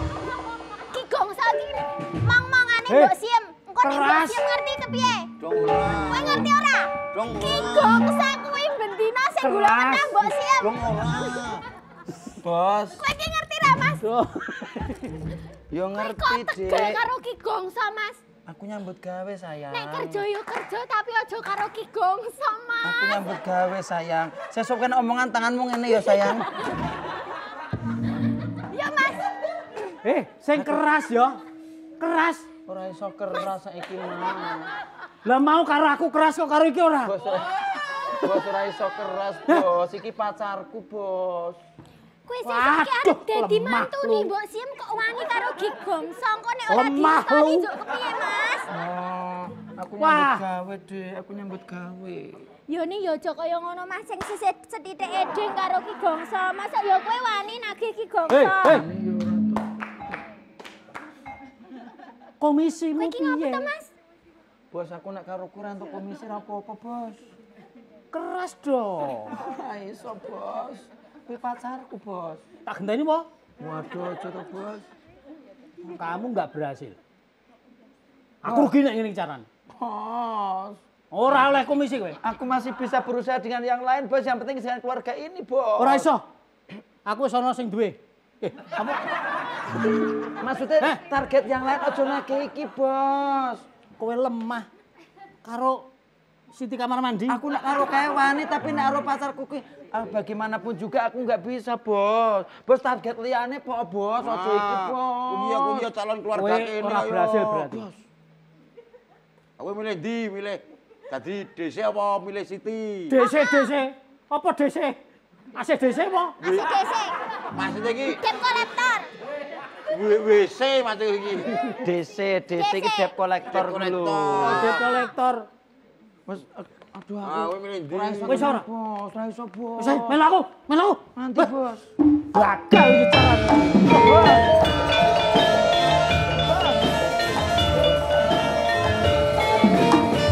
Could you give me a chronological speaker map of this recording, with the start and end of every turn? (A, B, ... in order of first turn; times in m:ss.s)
0:00.9-0:05.3 A
0:02.9-0:03.1 B
0:03.8-0:04.5 B
0:05.4-0:06.5 C
0:06.1-0:11.4 A
0:07.1-0:08.1 C
0:09.4-0:10.4 B
0:10.6-0:11.6 C
0:12.4-0:13.1 D
0:13.0-0:14.0 A
0:14.0-0:15.2 B
0:15.7-0:17.0 D
0:15.9-0:18.2 A
0:18.5-0:20.2 D
0:19.7-0:23.2 A
0:22.8-0:26.5 D
0:28.5-0:29.3 A
0:30.0-0:31.4 B
0:30.5-0:30.8 D
0:32.0-0:32.5 B
0:32.6-0:34.7 D
0:35.2-0:37.2 B
0:37.0-0:37.5 D
0:38.1-0:41.6 D
0:42.2-0:48.7 A
0:42.4-0:44.3 B
0:46.7-0:47.7 B
0:48.7-0:52.4 D
0:50.0-0:50.4 B
0:52.7-0:58.9 A
0:58.3-0:58.9 B
0:58.7-0:59.6 D
1:02.4-1:03.7 B
1:03.0-1:03.9 A
1:04.7-1:07.3 D
1:08.1-1:09.4 B
1:09.3-1:12.4 D
1:12.6-1:13.3 B
1:13.6-1:14.9 D
1:15.8-1:17.0 B
1:18.4-1:19.4 B
1:18.4-1:18.7 D
1:19.7-1:20.8 D
1:21.1-1:22.2 B
1:22.2-1:26.1 D
1:25.8-1:26.2 B
1:27.0-1:29.1 B
1:30.3-1:33.6 D
1:34.0-1:34.7 B
1:35.4-1:35.9 B
1:36.5-1:37.4 B
1:37.3-1:45.9 D
1:44.2-1:47.7 C
1:46.3-1:47.9 B
1:47.6-1:47.9 D
1:49.6-1:53.2 C
1:53.1-1:55.0 B
1:53.1-1:53.8 A
1:55.5-1:56.4 B
1:56.4-1:56.7 C
1:56.4-1:57.1 A
1:57.5-1:58.2 C
1:58.1-1:59.1 A
1:59.9-2:01.5 C
2:01.8-2:04.6 D
2:02.6-2:03.1 A
2:03.5-2:04.9 C
2:04.4-2:05.5 B
2:06.2-2:10.2 D
2:07.2-2:08.5 C
2:08.2-2:08.6 B
2:09.8-2:11.5 B
2:11.1-2:11.9 D
2:12.3-2:14.1 B
2:13.9-2:14.6 D